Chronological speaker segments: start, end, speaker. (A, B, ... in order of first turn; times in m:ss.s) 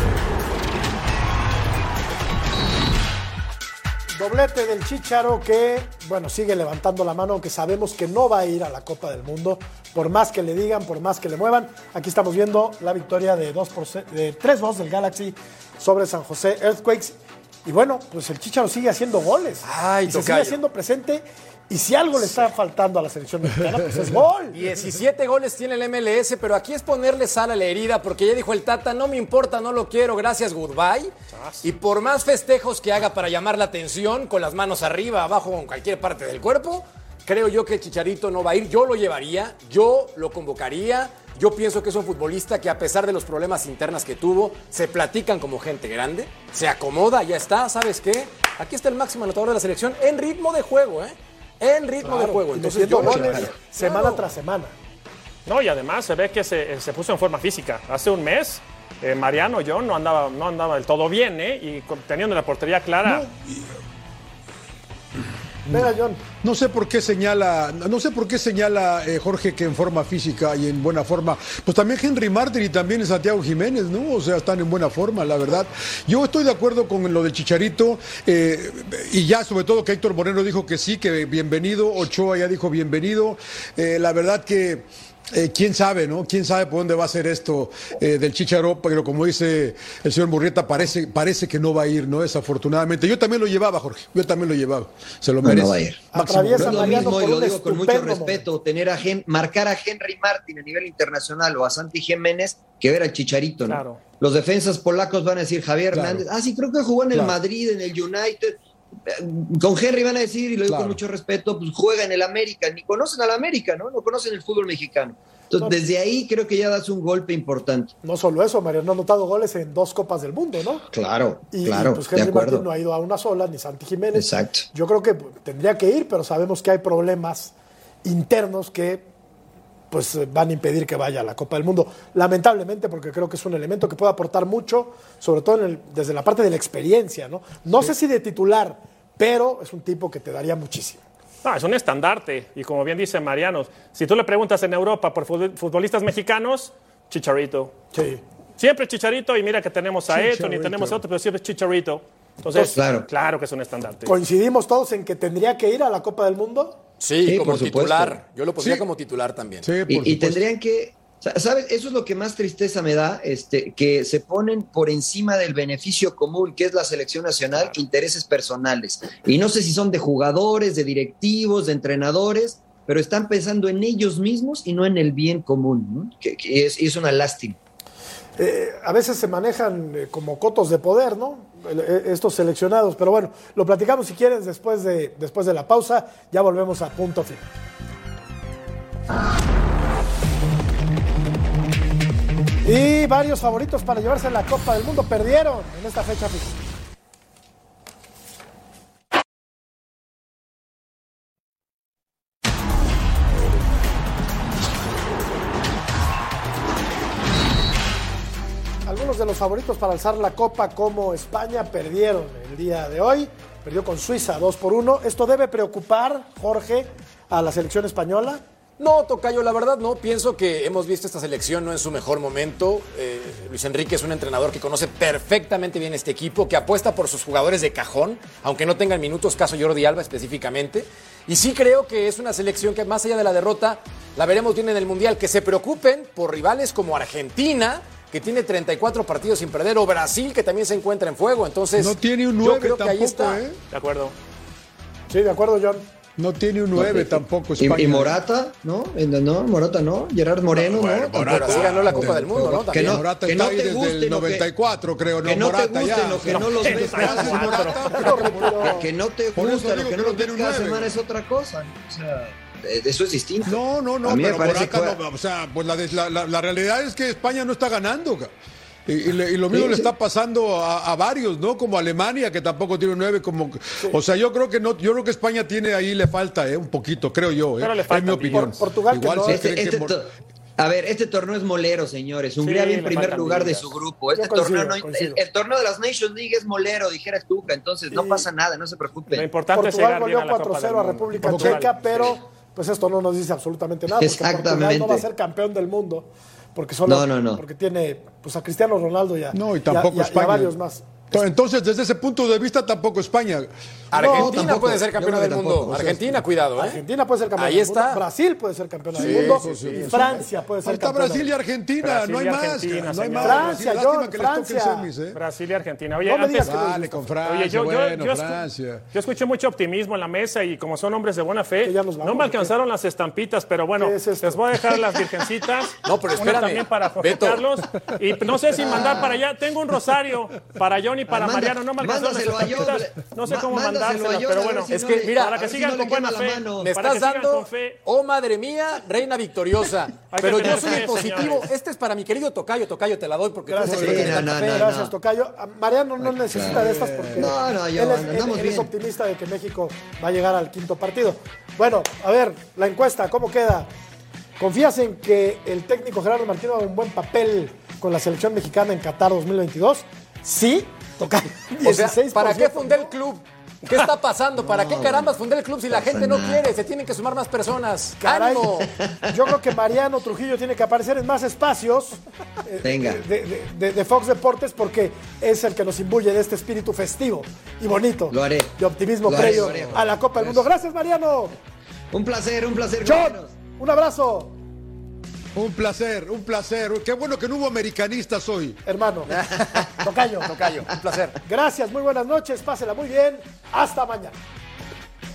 0:04.1-0:24.6 A
0:19.6-0:20.6 B
0:22.2-0:22.5 B
0:24.5-0:54.2 B
0:31.3-0:31.6 C
0:52.0-0:54.7 A
0:53.0-0:53.5 D
0:55.5-1:03.3 C
1:03.0-1:03.7 E
1:05.7-1:06.2 A
1:05.7-1:37.2 E
1:35.4-1:57.9 D
1:36.1-1:38.4 A
1:43.7-1:44.0 C
1:45.9-1:46.3 E
1:50.7-1:51.0 E
1:58.0-2:00.8 A
2:00.9-2:02.7 D
2:01.5-2:07.5 A
2:04.1-2:04.7 D
2:08.0-2:09.1 A
2:09.9-2:21.0 A
2:21.4-2:27.8 C
2:27.9-2:28.2 A
2:28.6-2:34.1 C
2:30.1-2:31.0 E
2:32.7-2:33.1 D
2:34.0-2:36.8 A
2:37.0-2:39.7 B
2:37.2-2:38.2 D
2:38.6-2:38.8 E
2:39.6-2:40.4 E
2:39.9-2:57.6 D
2:58.4-3:07.5 A
3:12.6-3:16.6 A
3:28.9-3:38.4 A
3:38.8-4:03.4 B
4:01.8-4:03.6 E
4:03.7-4:04.2 C
4:05.1-4:05.9 A
4:06.2-4:08.2 E
4:06.8-4:14.5 D
4:10.5-4:18.8 E
4:11.2-4:13.0 B
4:15.2-4:18.0 D
4:16.6-4:18.3 C
4:17.8-4:18.9 A
4:18.6-4:25.0 D
4:19.3-4:21.0 E
4:23.4-4:28.3 E
4:28.9-4:40.0 E
4:29.5-4:29.9 D
4:37.6-4:38.5 C
4:38.3-4:39.5 A
4:39.2-4:49.3 D
4:42.4-4:43.7 C
4:44.2-4:45.2 A
4:47.9-4:48.3 A
4:49.1-4:51.7 C
4:49.5-5:01.1 A
4:51.2-4:51.7 E
4:54.0-4:55.1 D
4:56.9-4:57.4 D
4:59.3-5:00.5 E
5:01.1-5:03.5 E
5:03.9-5:06.8 B
5:04.0-5:06.0 D
5:04.0-5:04.5 A
5:06.6-5:11.3 A
5:07.4-5:08.0 B
5:08.9-5:10.2 B
5:08.9-5:15.2 E
5:11.8-5:13.6 C
5:13.2-5:14.9 A
5:15.1-5:16.7 C
5:16.0-5:17.1 A
5:16.4-5:18.8 E
5:17.2-5:37.8 C
5:21.6-5:22.5 A
5:23.8-5:24.4 A
5:25.8-5:27.4 B
5:28.6-5:29.2 D
5:31.1-5:36.7 D
5:34.7-5:35.4 B
5:36.6-5:44.3 B
5:40.1-5:41.5 C
5:43.5-5:53.7 A
5:43.7-5:44.2 E
5:43.7-5:45.0 D
5:46.0-5:46.6 D
5:46.4-5:47.3 E
5:47.1-5:48.7 D
5:54.4-6:02.9 A
6:01.6-6:08.7 B
6:04.4-6:05.1 D
6:05.7-6:06.5 D
6:08.0-6:21.4 A
6:12.6-6:13.0 D
6:18.1-6:18.5 D
6:19.0-6:19.9 D
6:19.1-6:19.8 E
6:21.9-6:23.4 D
6:22.8-6:24.3 A
6:25.4-6:28.6 E
6:28.6-6:29.1 A
6:29.8-6:30.3 A
6:30.2-6:31.2 B
6:31.3-6:34.2 A